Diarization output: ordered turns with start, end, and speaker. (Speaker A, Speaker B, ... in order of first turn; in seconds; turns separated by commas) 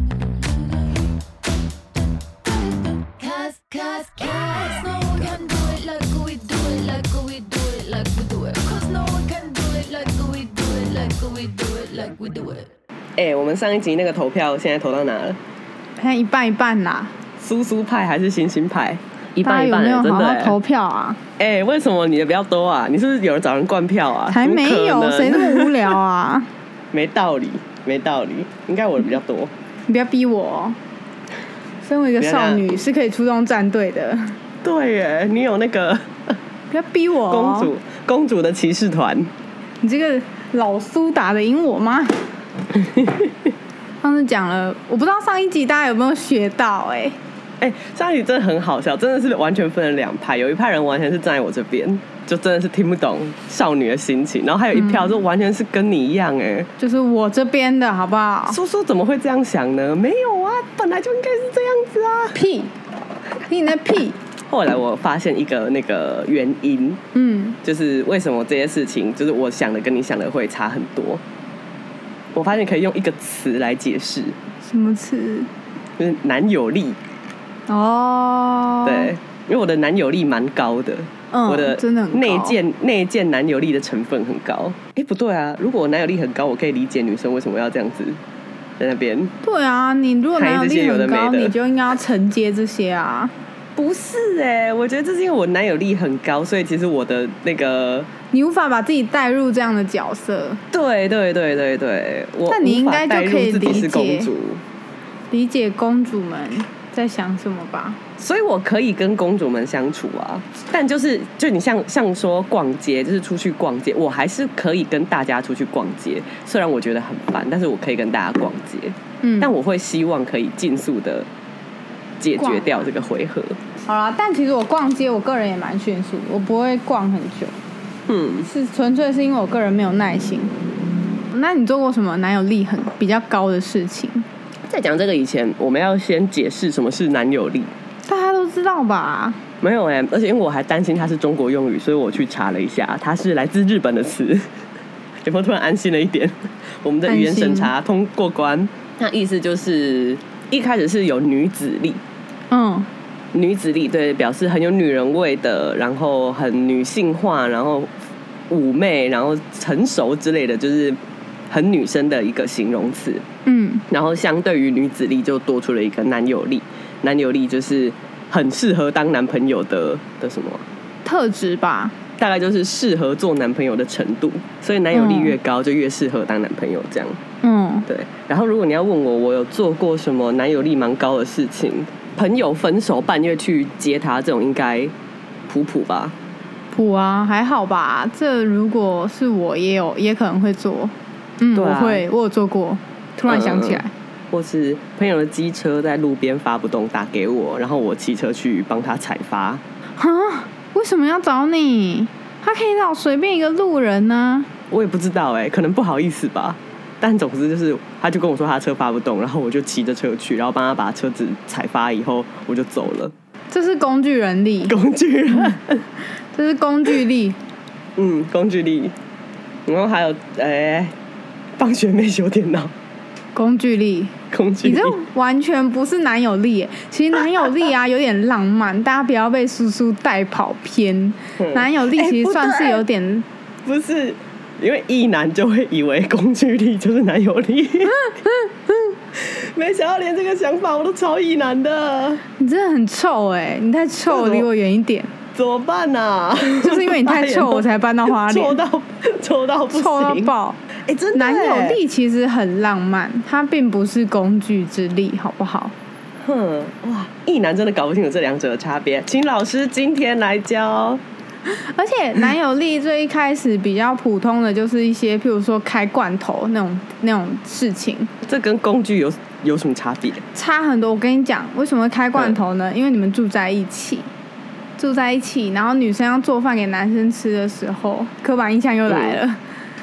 Speaker A: 3.1-12.7, Speaker B: 13.2-15.4, Speaker C: 16.0-17.1, Speaker B: 17.4-20.6, Speaker C: 19.4-21.2, Speaker B: 21.4-25.9, Speaker C: 24.3-26.5, Speaker B: 26.9-29.5, Speaker C: 29.9-30.8, Speaker C: 31.8-34.4, Speaker B: 32.2-32.6, Speaker B: 34.6-36.4, Speaker C: 36.7-37.7, Speaker B: 37.3-39.3, Speaker C: 39.8-42.3, Speaker B: 42.9-43.3, Speaker C: 44.0-47.2, Speaker B: 47.6-56.7, Speaker C: 54.7-55.2, Speaker C: 56.8-58.6, Speaker B: 58.5-62.4, Speaker C: 62.3-62.7, Speaker C: 63.5-64.2, Speaker B: 64.5-67.0, Speaker C: 67.1-67.6, Speaker B: 67.6-71.2, Speaker B: 72.3-74.4, Speaker C: 74.6-75.5, Speaker B: 76.0-77.0, Speaker C: 77.7-79.1, Speaker B: 78.8-88.2, Speaker C: 81.3-82.6, Speaker B: 88.8-89.3, Speaker C: 89.4-93.3, Speaker B: 90.3-91.5, Speaker B: 93.8-98.1, Speaker C: 98.3-100.6, Speaker B: 100.7-104.6, Speaker C: 102.5-104.3, Speaker C: 105.3-108.0, Speaker B: 108.2-121.3, Speaker C: 119.2-119.5, Speaker B: 122.2-123.6, Speaker C: 122.4-122.8, Speaker C: 123.8-127.5, Speaker B: 128.1-128.5, Speaker C: 128.4-130.5, Speaker C: 131.3-134.3, Speaker B: 134.7-137.7, Speaker C: 138.1-139.4, Speaker B: 139.6-144.5, Speaker B: 145.2-152.0, Speaker C: 147.1-147.7, Speaker C: 152.5-152.9, Speaker B: 153.3-157.9, Speaker B: 158.5-161.0, Speaker B: 161.5-163.2, Speaker C: 163.4-163.8, Speaker B: 163.9-170.6, Speaker C: 171.0-171.9, Speaker B: 172.2-177.2, Speaker C: 174.9-175.3, Speaker C: 177.4-177.9, Speaker B: 177.9-184.9, Speaker B: 185.5-186.1, Speaker C: 186.7-193.9, Speaker B: 191.5-192.0, Speaker B: 193.2-199.6, Speaker C: 200.0-204.5, Speaker B: 204.7-213.1, Speaker C: 213.5-214.8, Speaker B: 214.7-215.8, Speaker C: 215.3-215.6, Speaker C: 216.3-217.4, Speaker B: 217.9-218.9, Speaker B: 219.7-220.9, Speaker B: 221.6-222.7, Speaker C: 223.3-233.2, Speaker B: 224.3-224.9, Speaker B: 231.4-232.8, Speaker B: 233.6-238.1, Speaker C: 238.0-238.4, Speaker B: 239.1-242.2, Speaker C: 242.4-245.1, Speaker B: 244.1-244.4, Speaker B: 245.3-250.3, Speaker C: 246.6-248.6, Speaker C: 249.7-250.6, Speaker B: 250.9-251.8, Speaker C: 251.1-255.7, Speaker B: 256.2-261.0, Speaker C: 261.5-268.1, Speaker B: 268.2-270.2, Speaker C: 270.3-274.1, Speaker C: 274.8-279.4, Speaker B: 278.9-279.2